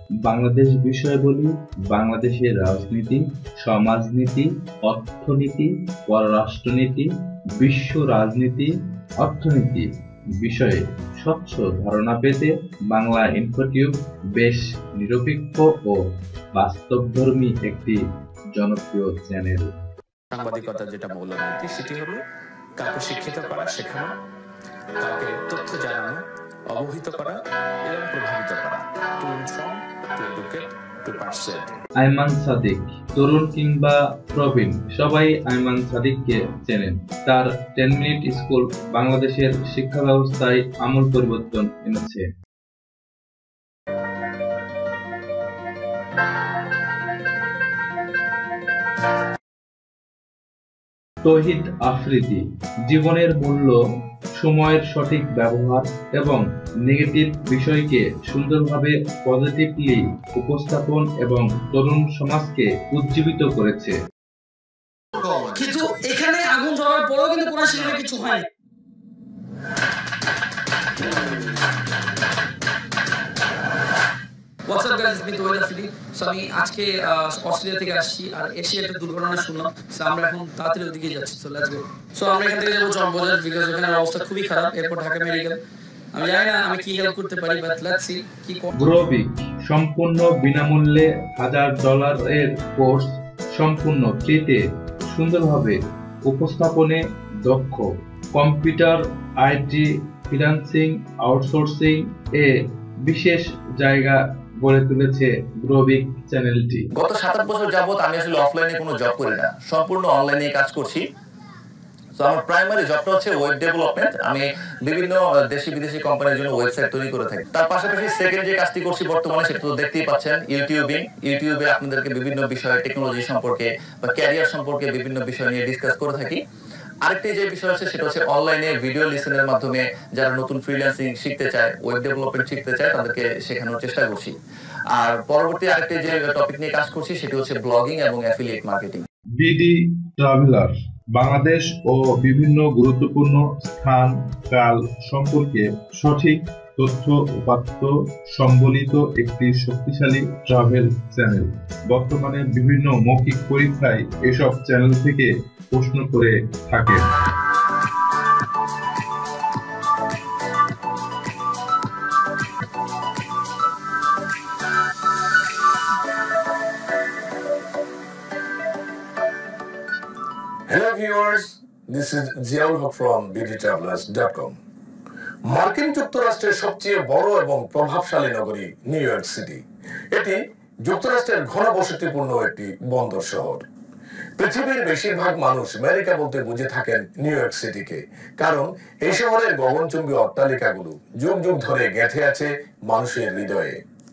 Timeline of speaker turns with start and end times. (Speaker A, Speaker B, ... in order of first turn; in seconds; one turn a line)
Speaker A: 0.2-16.0
Speaker A: 16.5-18.0
Speaker A: 18.5-19.7
Speaker B: 20.3-22.2
Speaker B: 22.8-24.1
Speaker B: 25.0-31.7
Speaker A: 32.0-42.3
Speaker A: 51.2-53.8
Speaker A: 54.4-64.0
Speaker C: 65.2-68.5
Speaker C: 74.7-85.6
Speaker C: 86.1-88.7
Speaker A: 88.8-106.9
Speaker D: 107.0-111.0
Speaker D: 112.2-126.4
Speaker D: 127.0-134.3
Speaker D: 134.9-139.0
Speaker A: 139.4-157.1
Speaker E: 170.7-174.5
Speaker E: 175.5-179.6
Speaker E: 180.1-183.7
Speaker E: 184.4-193.8